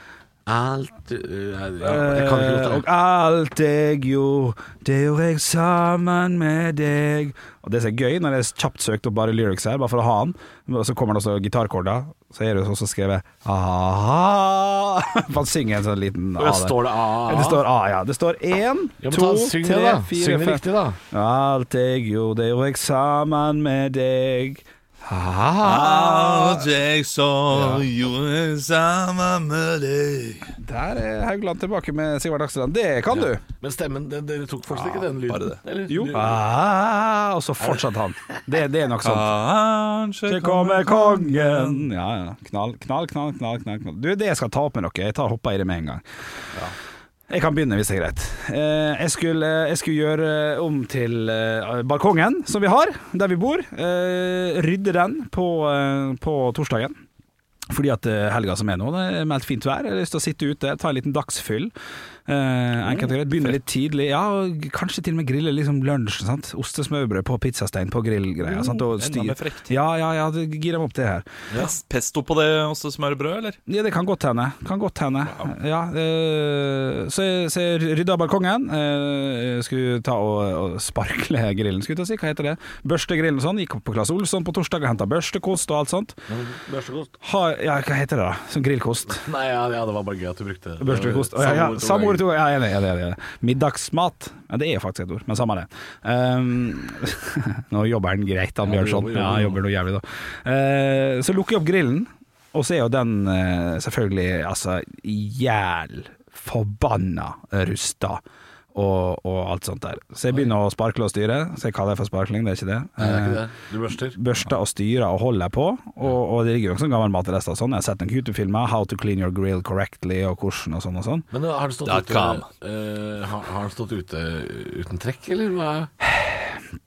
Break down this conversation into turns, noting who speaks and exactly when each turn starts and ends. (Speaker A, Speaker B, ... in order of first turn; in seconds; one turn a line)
Speaker A: 0.5-2.8
Speaker B: 1.8-26.7
Speaker A: 16.4-17.6
Speaker A: 19.0-21.0
Speaker C: 25.6-30.5
Speaker A: 27.5-27.9
Speaker B: 30.6-33.4
Speaker A: 33.1-36.4
Speaker C: 34.7-35.6
Speaker B: 35.9-39.3
Speaker A: 37.6-37.8
Speaker C: 39.0-41.9
Speaker B: 40.3-46.0
Speaker B: 47.3-56.9
Speaker B: 57.7-61.7
Speaker B: 62.3-71.2
Speaker C: 68.4-69.8
Speaker C: 71.5-73.6
Speaker B: 73.7-86.2
Speaker A: 86.3-87.2
Speaker B: 87.2-89.3
Speaker A: 89.1-92.2
Speaker B: 90.8-108.2
Speaker A: 98.6-99.6
Speaker B: 108.7-113.4
Speaker A: 113.0-114.2
Speaker B: 114.1-121.3
Speaker A: 121.3-125.9
Speaker C: 121.8-122.5
Speaker B: 126.0-126.6